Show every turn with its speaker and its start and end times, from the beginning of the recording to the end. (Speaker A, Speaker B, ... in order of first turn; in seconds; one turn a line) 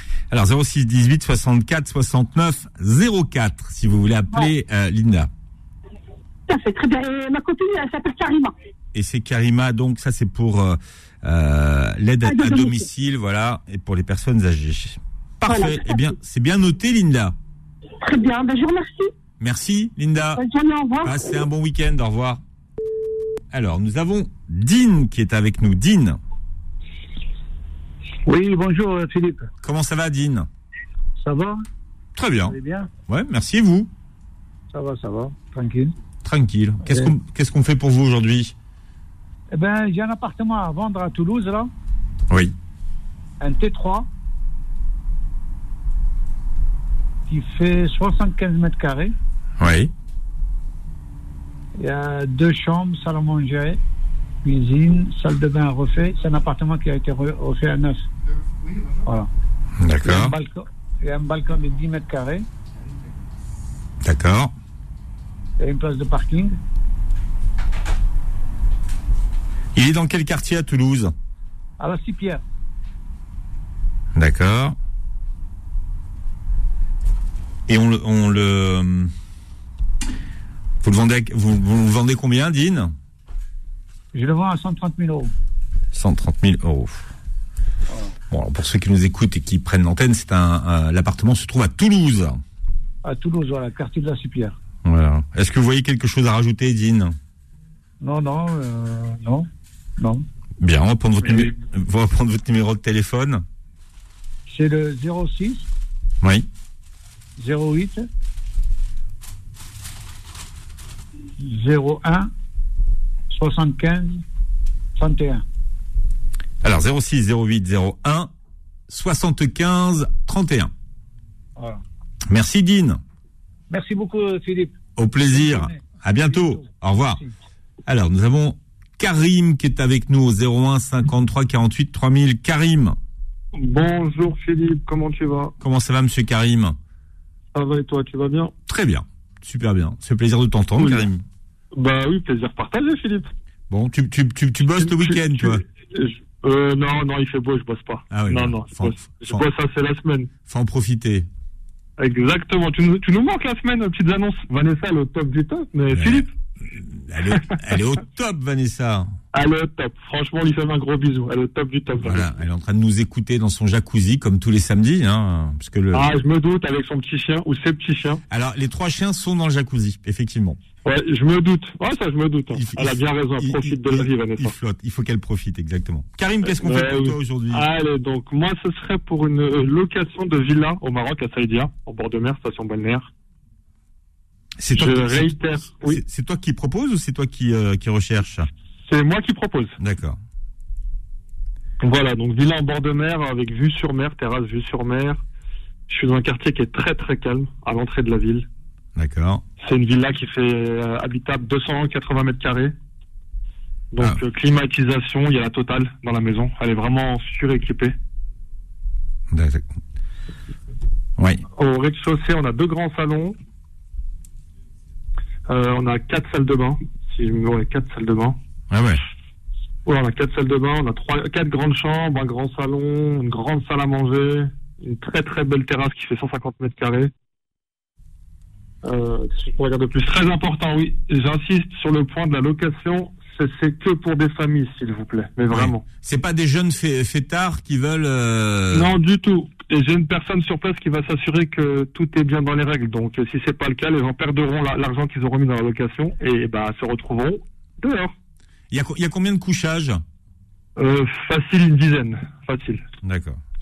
Speaker A: 0.3-5.3
Speaker B: 6.5-8.5
Speaker A: 8.9-17.3
Speaker B: 12.2-12.9
Speaker B: 15.5-16.1
Speaker B: 18.0-19.1
Speaker A: 19.4-20.4
Speaker B: 20.4-21.4
Speaker A: 21.0-22.4
Speaker A: 23.5-26.2
Speaker C: 28.2-29.5
Speaker A: 29.6-30.5
Speaker C: 31.2-31.6
Speaker A: 32.1-32.5
Speaker C: 32.5-32.9
Speaker A: 33.1-33.9
Speaker C: 34.7-35.9
Speaker A: 36.2-38.5
Speaker C: 36.8-37.1
Speaker C: 39.5-41.7
Speaker A: 42.3-42.5
Speaker C: 43.4-44.1
Speaker C: 47.3-49.1
Speaker A: 49.6-49.9
Speaker C: 51.8-53.8
Speaker C: 54.4-58.1
Speaker C: 59.0-59.3
Speaker A: 59.8-60.3
Speaker C: 60.0-62.5
Speaker A: 64.0-64.5
Speaker C: 65.6-66.6
Speaker A: 69.7-71.1
Speaker C: 71.8-72.4
Speaker A: 74.1-74.8
Speaker A: 77.7-79.1
Speaker A: 80.8-82.9
Speaker C: 84.1-85.3
Speaker A: 85.9-87.1
Speaker A: 88.3-92.4
Speaker C: 93.0-94.6
Speaker A: 94.8-97.2
Speaker C: 98.0-99.5
Speaker C: 100.0-100.2
Speaker A: 100.6-103.4
Speaker C: 104.5-105.7
Speaker A: 106.2-106.5
Speaker C: 107.4-108.1
Speaker C: 111.4-112.3
Speaker C: 113.3-114.2
Speaker C: 115.0-115.4
Speaker A: 116.6-118.3
Speaker A: 118.9-120.7
Speaker A: 122.3-123.0
Speaker C: 123.7-127.3
Speaker A: 125.0-127.2
Speaker A: 127.8-133.0
Speaker D: 133.5-135.5
Speaker A: 135.6-136.8
Speaker D: 137.5-138.5
Speaker A: 138.7-141.2
Speaker D: 140.8-141.1
Speaker D: 141.7-143.3
Speaker A: 143.7-145.6
Speaker D: 144.8-150.3
Speaker A: 148.1-149.4
Speaker A: 150.5-151.3
Speaker D: 152.0-156.3
Speaker A: 155.9-159.1
Speaker D: 159.3-162.2
Speaker A: 162.0-166.1
Speaker D: 165.9-168.2
Speaker A: 168.3-170.6
Speaker D: 170.8-174.5
Speaker A: 172.5-177.6
Speaker D: 176.4-183.1
Speaker A: 184.6-188.5
Speaker D: 184.7-186.0
Speaker D: 188.8-189.8
Speaker A: 189.8-190.2
Speaker D: 191.8-195.2
Speaker D: 195.9-198.5
Speaker A: 198.9-199.4
Speaker D: 199.6-202.7
Speaker D: 203.9-207.9
Speaker A: 209.3-209.7
Speaker A: 211.2-211.4
Speaker D: 211.5-213.3
Speaker D: 215.5-218.4
Speaker A: 218.7-219.0
Speaker D: 219.8-227.1
Speaker D: 228.8-235.8
Speaker A: 235.5-238.9
Speaker D: 238.7-248.1
Speaker A: 248.7-250.0
Speaker D: 250.8-252.8
Speaker A: 253.0-253.4